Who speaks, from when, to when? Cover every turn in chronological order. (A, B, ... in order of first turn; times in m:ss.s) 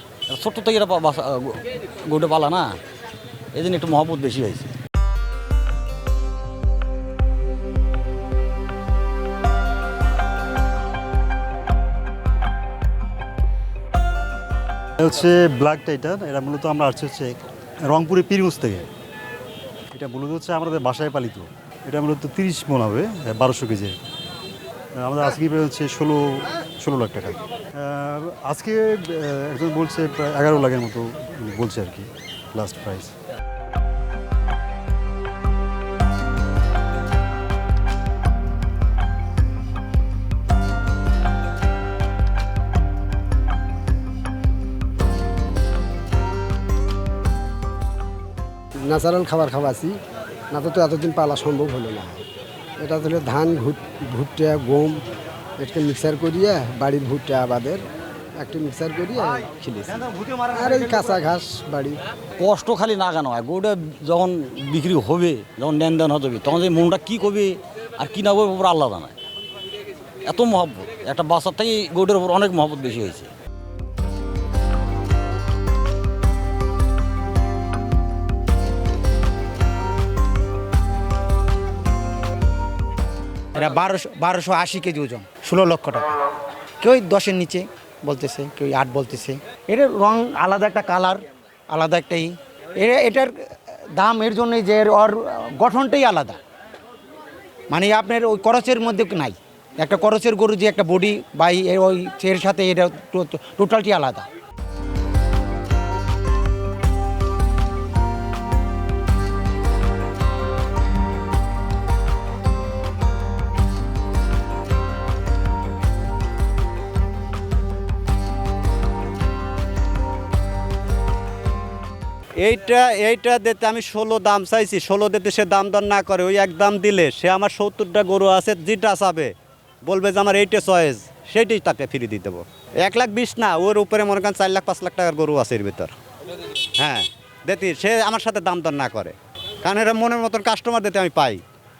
0:00.3-0:02.7 A
0:03.5-0:04.7 A
0:15.0-0:18.9 B
0:19.9-0:24.0 B
0:25.0-0:33.1 B
0:48.9-0:50.0 C
0:50.5-0:52.2 C
0:52.8-0:55.0 C
0:55.6-0:57.8 C
0:58.4-1:02.0 C
1:02.4-1:09.1 A
1:10.3-1:13.3 A
1:23.5-1:26.2 D
1:26.8-1:33.3 D
1:34.0-1:36.4 D
1:37.7-1:44.3 D
2:02.4-2:09.3 E
2:09.9-2:15.9 E
2:16.8-2:21.4 E